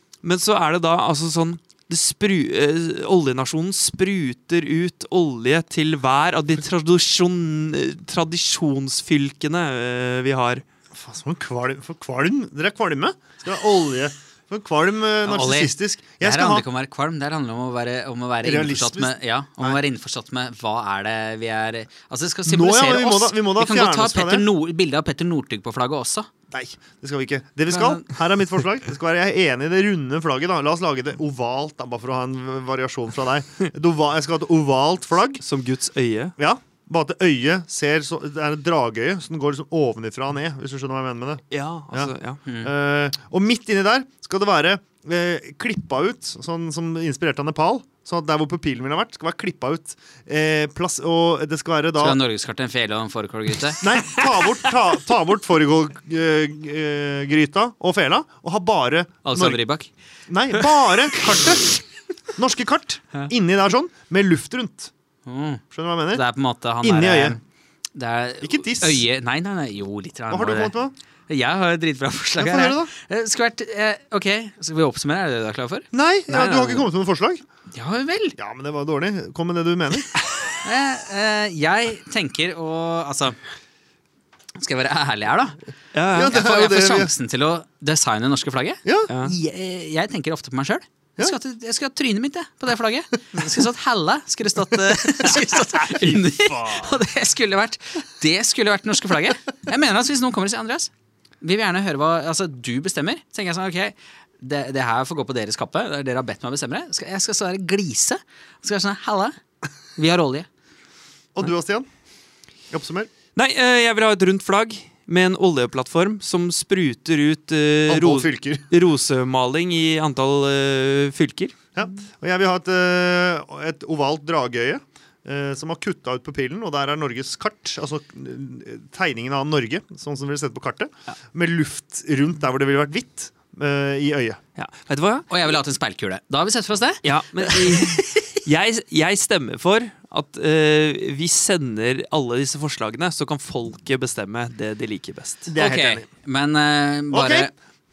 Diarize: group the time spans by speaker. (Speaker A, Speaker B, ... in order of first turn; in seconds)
Speaker A: 0.2-10.6, 35.4-36.3, 41.5-42.4, 76.3-76.9, 85.9-86.3, 89.1-89.3, 113.3-121.5, 134.6-135.3, 137.0-145.5
Speaker B: 10.9-16.6, 18.4-19.8, 22.4-24.5, 26.5-35.4, 36.4-52.2, 53.8-59.6, 60.3-61.7, 62.4-64.9, 65.7-66.2, 66.8-67.4, 68.4-69.0, 70.3-70.9, 72.4-72.9, 75.9-77.4, 78.4-80.1, 86.1-87.1, 88.8-89.1, 95.3-97.0, 111.3-111.9, 112.7-113.1, 117.9-118.7, 121.7-134.4, 145.4-146.1, 147.1-147.5
Speaker C: 15.2-26.3, 27.7-28.2, 42.5-42.7, 52.0-53.8, 59.2-59.9, 65.2-67.4, 68.0-75.9, 77.7-78.4, 80.6-83.4, 84.6-85.6, 86.2-109.3, 110.0-110.5, 135.3-138.4, 145.5-147.5